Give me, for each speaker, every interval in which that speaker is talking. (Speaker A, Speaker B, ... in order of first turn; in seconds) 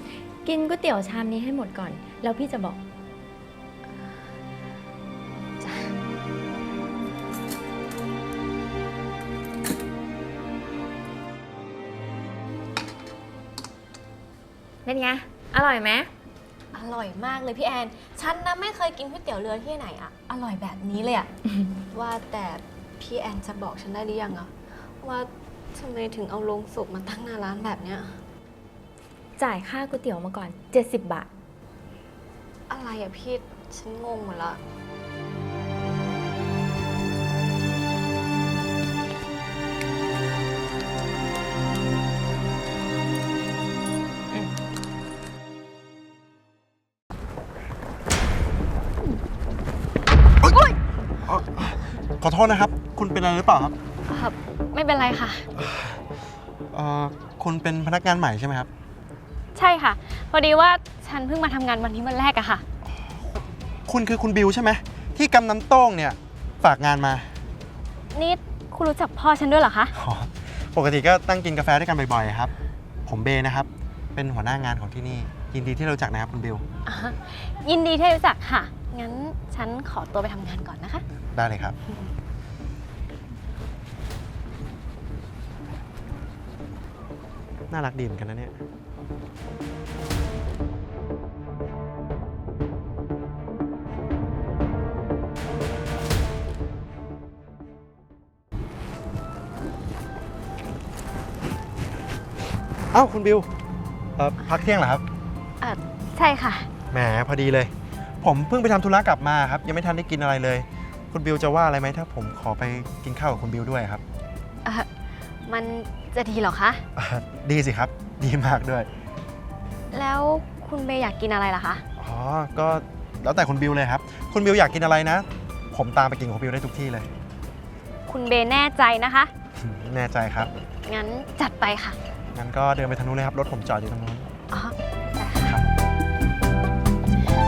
Speaker A: 0.4-2.8, 14.9-16.1, 29.4-31.3
Speaker B: 5.6-5.9, 16.7-21.3, 21.9-28.2, 32.7-34.6, 50.5-50.7, 54.1-55.5, 59.5-62.6, 68.1-69.9, 76.9-81.0, 105.6-106.7, 115.5-116.8, 119.9-121.8, 128.1-129.3, 130.9-132.0, 134.5-135.6
Speaker C: 51.2-53.7, 55.6-56.0, 56.7-58.7, 63.9-67.3, 70.0-72.5, 73.1-76.7, 81.3-81.8, 87.7-88.6, 102.9-103.5, 104.2-105.0, 106.9-107.7, 108.2-114.0, 117.0-118.9, 122.0-127.1, 129.6-130.5, 132.3-134.3